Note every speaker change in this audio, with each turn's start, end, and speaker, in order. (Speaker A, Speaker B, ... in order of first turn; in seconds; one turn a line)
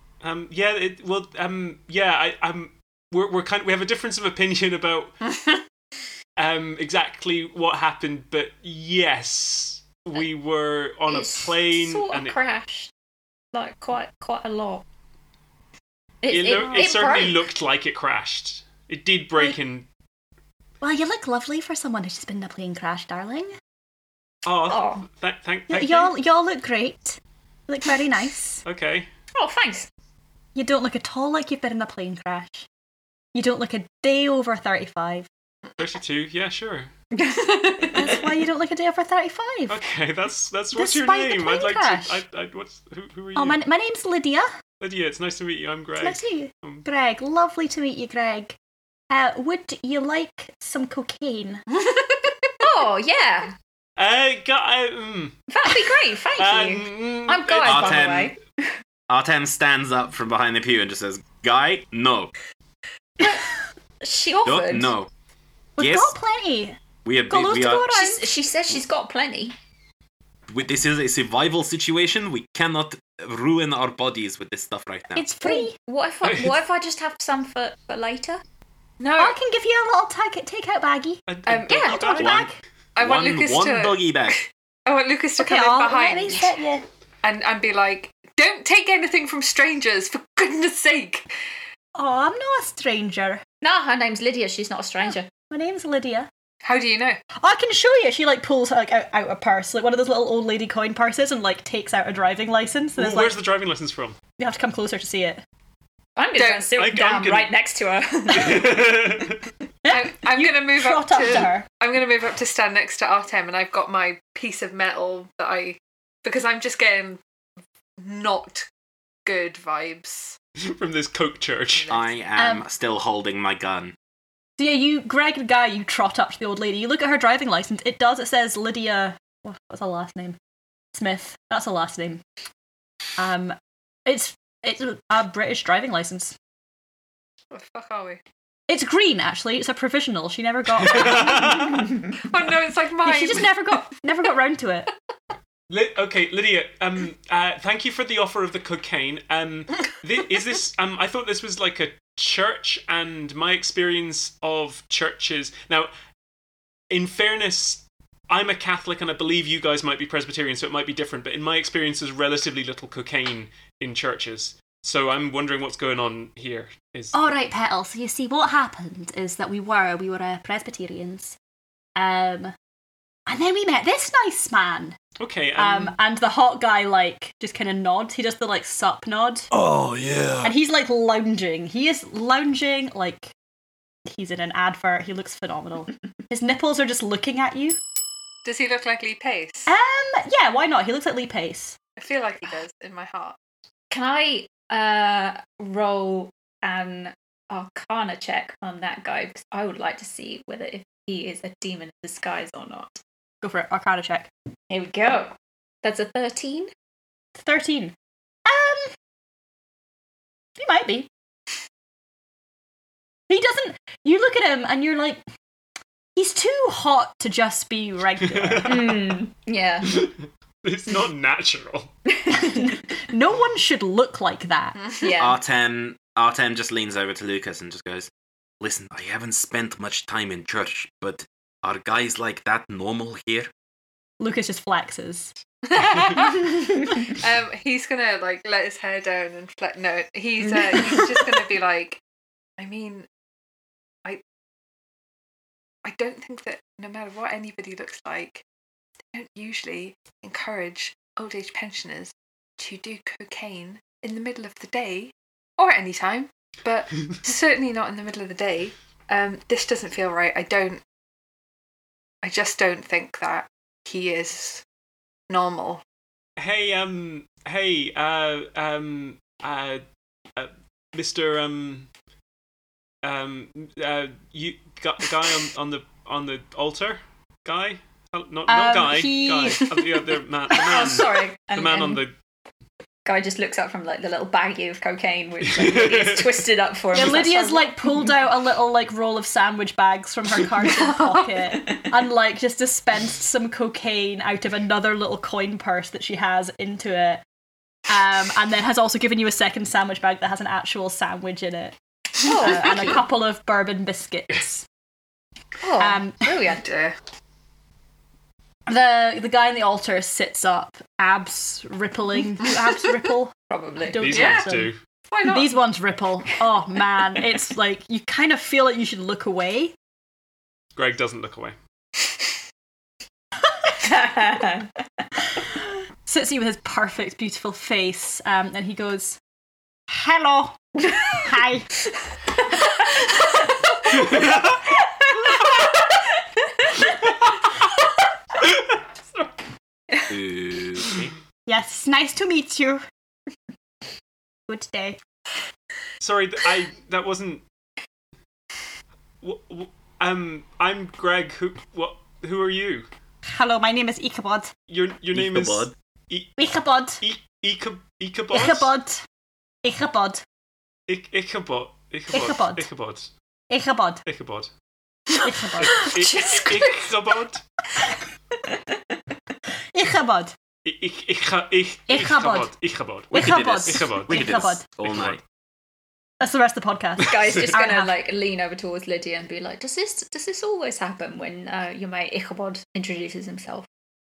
Speaker A: 0.2-5.2
Speaker B: 5.2-5.6
Speaker A: 6.4-12.4
Speaker C: 11.1-12.9
Speaker C: 13.5-14.8
Speaker C: 16.2-17.4
Speaker A: 16.3-19.9
Speaker D: 16.7-17.0
Speaker D: 20.8-23.5
Speaker A: 24.4-26.1
Speaker C: 24.7-25.0
Speaker D: 25.7-28.6
Speaker A: 28.6-29.1
Speaker C: 29.3-29.9
Speaker D: 30.5-32.7
Speaker D: 33.3-35.3
Speaker A: 35.8-36.9
Speaker C: 37.1-38.2
Speaker D: 37.9-39.8
Speaker A: 39.7-43.6
Speaker D: 40.7-42.2
Speaker D: 43.3-44.5
Speaker A: 44.8-46.9
Speaker D: 46.0-48.5
Speaker D: 49.1-51.6
Speaker B: 51.7-52.5
Speaker C: 52.6-53.5
Speaker A: 54.0-55.5
Speaker C: 55.5-58.4
Speaker A: 56.4-58.2
Speaker E: 57.6-58.3
Speaker E: 59.1-62.3
Speaker C: 64.0-64.9
Speaker E: 64.4-65.1
Speaker E: 65.8-66.1
Speaker D: 65.8-66.8
Speaker E: 67.0-67.9
Speaker D: 67.3-68.3
Speaker C: 67.9-69.5
Speaker E: 70.5-75.2
Speaker D: 75.2-75.8
Speaker C: 75.4-78.4
Speaker A: 76.2-76.5
Speaker B: 79.0-79.4
Speaker D: 79.2-81.2
Speaker A: 81.3-82.4
Speaker B: 81.5-82.0
Speaker C: 81.7-82.1
Speaker D: 81.8-82.6
Speaker E: 82.2-84.4
Speaker B: 82.9-86.5
Speaker D: 85.4-86.8
Speaker B: 87.2-91.3
Speaker D: 91.9-93.4
Speaker C: 93.6-95.3
Speaker D: 95.1-96.3
Speaker B: 96.6-97.2
Speaker D: 97.3-103.4
Speaker A: 103.0-104.2
Speaker D: 104.4-105.4
Speaker C: 106.2-109.0
Speaker B: 106.3-106.7
Speaker A: 106.8-107.5
Speaker A: 108.3-109.4
Speaker D: 109.8-111.7
Speaker B: 109.9-117.2
Speaker B: 118.0-118.7
Speaker B: 119.2-120.4
Speaker A: 120.6-121.9
Speaker B: 121.8-122.1
Speaker E: 121.9-123.9
Speaker D: 122.4-122.6
Speaker D: 124.6-130.4
Speaker D: 130.9-132.2
Speaker D: 133.2-136.3
Speaker B: 137.5-138.2
Speaker D: 138.7-141.7
Speaker A: 140.8-141.8
Speaker B: 142.2-143.6
Speaker D: 143.0-144.9
Speaker A: 145.7-155.9
Speaker A: 156.9-167.2
Speaker D: 167.1-171.3
Speaker D: 171.9-172.5
Speaker D: 173.3-175.0
Speaker A: 175.2-175.9
Speaker D: 175.6-179.5
Speaker E: 179.5-180.5
Speaker D: 180.4-183.3
Speaker D: 184.1-187.8
Speaker B: 188.4-189.7
Speaker D: 189.7-191.8
Speaker B: 192.0-193.4
Speaker C: 193.9-203.0
Speaker D: 203.4-204.3
Speaker C: 204.7-206.7
Speaker D: 207.3-207.9
Speaker D: 208.4-208.9
Speaker D: 210.6-211.1
Speaker D: 213.3-215.2
Speaker D: 216.2-218.9
Speaker A: 218.3-219.2
Speaker C: 218.6-220.0
Speaker A: 219.8-221.9
Speaker D: 222.3-224.8
Speaker C: 225.0-225.4
Speaker E: 225.2-228.1
Speaker E: 228.6-233.5
Speaker D: 234.2-235.3
Speaker B: 235.7-242.0
Speaker B: 242.6-243.1
Speaker B: 245.8-248.4
Speaker B: 249.1-260.8
Speaker B: 262.2-264.6
Speaker B: 265.3-265.8
Speaker A: 266.4-269.8
Speaker A: 270.3-271.9
Speaker A: 273.0-282.1
Speaker D: 278.5-279.7
Speaker C: 280.5-282.0
Speaker C: 283.1-287.8
Speaker A: 285.4-286.4
Speaker D: 286.9-297.2
Speaker D: 297.9-304.6
Speaker C: 302.2-303.0
Speaker C: 305.6-306.6
Speaker D: 305.8-306.3
Speaker B: 306.6-306.9
Speaker D: 308.7-313.3
Speaker C: 313.5-314.1
Speaker D: 313.9-314.7
Speaker A: 314.0-314.8
Speaker B: 314.1-314.5
Speaker B: 315.1-315.5
Speaker D: 315.2-319.7
Speaker A: 320.8-321.6
Speaker C: 323.7-324.7
Speaker D: 326.0-329.2
Speaker D: 329.9-331.7
Speaker C: 333.0-336.0
Speaker C: 336.6-336.9
Speaker E: 340.1-341.1
Speaker D: 341.5-342.8
Speaker D: 344.5-345.0
Speaker A: 346.0-347.4
Speaker A: 349.2-352.9
Speaker D: 353.2-354.5
Speaker A: 354.7-356.4
Speaker E: 355.1-355.7
Speaker D: 356.4-357.0
Speaker A: 357.0-358.7
Speaker D: 358.3-359.0
Speaker D: 359.6-360.2
Speaker A: 360.9-363.1
Speaker D: 362.1-362.7
Speaker D: 363.5-364.0
Speaker A: 364.1-364.5
Speaker D: 365.2-365.9
Speaker A: 365.6-367.4
Speaker B: 365.8-366.2
Speaker D: 369.7-370.3
Speaker A: 370.6-375.2
Speaker D: 371.9-372.5
Speaker D: 373.1-374.6
Speaker E: 373.1-375.2
Speaker D: 376.2-377.9
Speaker C: 377.0-383.6